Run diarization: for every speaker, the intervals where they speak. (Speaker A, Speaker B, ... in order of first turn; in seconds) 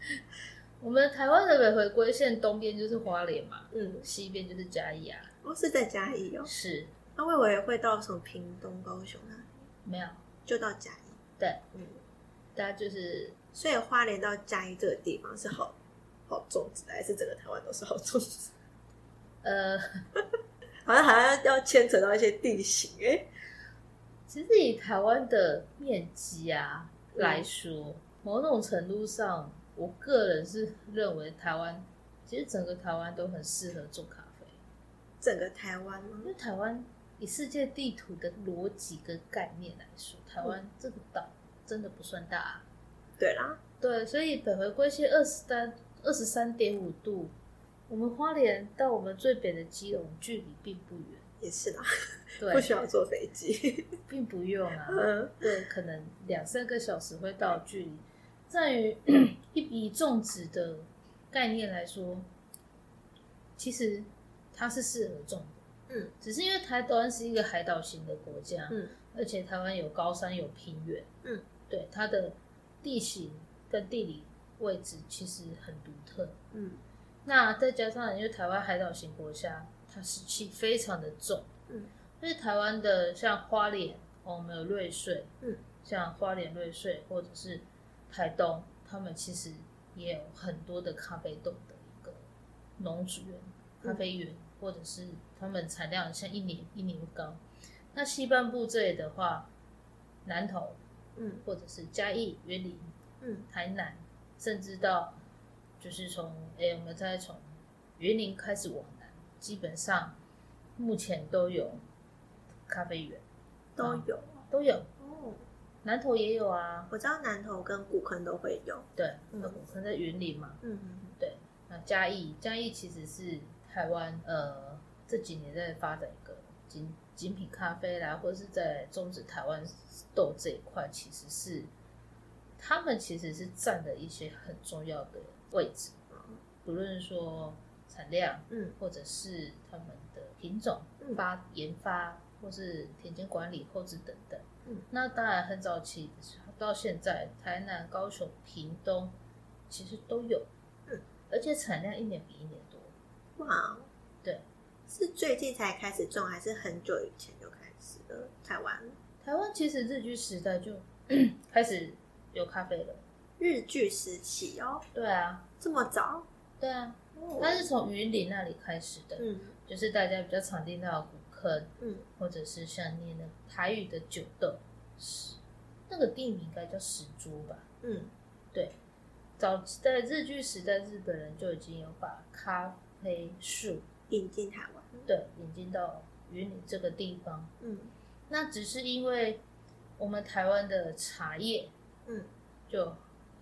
Speaker A: 0.8-5.3, 6.4-6.9, 9.8-10.2, 12.5-13.3, 19.4-20.0, 24.3-34.6, 36.2-42.6, 43.8-47.3, 47.9-51.3, 52.4-52.8, 54.1-62.3, 63.6-65.6, 66.2-71.1, 71.7-76.4, 77.2-81.5, 82.2-85.3, 85.8-92.2, 92.8-97.4, 97.9-99.5, 100.2-100.8, 101.5-102.9, 103.5-105.2, 105.8-107.4, 108.0-110.2, 110.8-111.8, 112.7-113.2, 113.8-114.9, 115.8-116.9, 119.0-120.6, 121.2-131.7, 132.6-135.9, 136.6-149.1, 149.7-150.5, 151.3-152.9, 159.2-163.0, 164.9-165.5, 166.6-177.7, 179.4-183.8, 185.1-187.5, 188.3-189.4, 190.0-191.7, 192.7-193.0
Speaker B: 3.7-4.0, 5.4-6.5, 7.2-9.5, 10.4-11.2, 11.7-12.0, 13.5-15.8, 16.3-18.5, 20.9-23.3, 27.1-27.4, 35.2-36.3, 43.2-43.6, 51.4-54.0, 54.9-55.4, 68.7-69.0, 76.5-76.8, 101.2-101.4, 103.2-103.5, 113.8-114.5, 115.0-115.4, 116.9-119.5, 120.6-121.2, 136.1-136.4, 138.5-138.8, 153.4-153.9, 154.9-158.9, 163.4-164.8, 165.6-166.3, 167.1-167.7, 169.2-169.5, 171.8-172.1, 177.8-178.1, 184.1-185.1, 187.6-187.9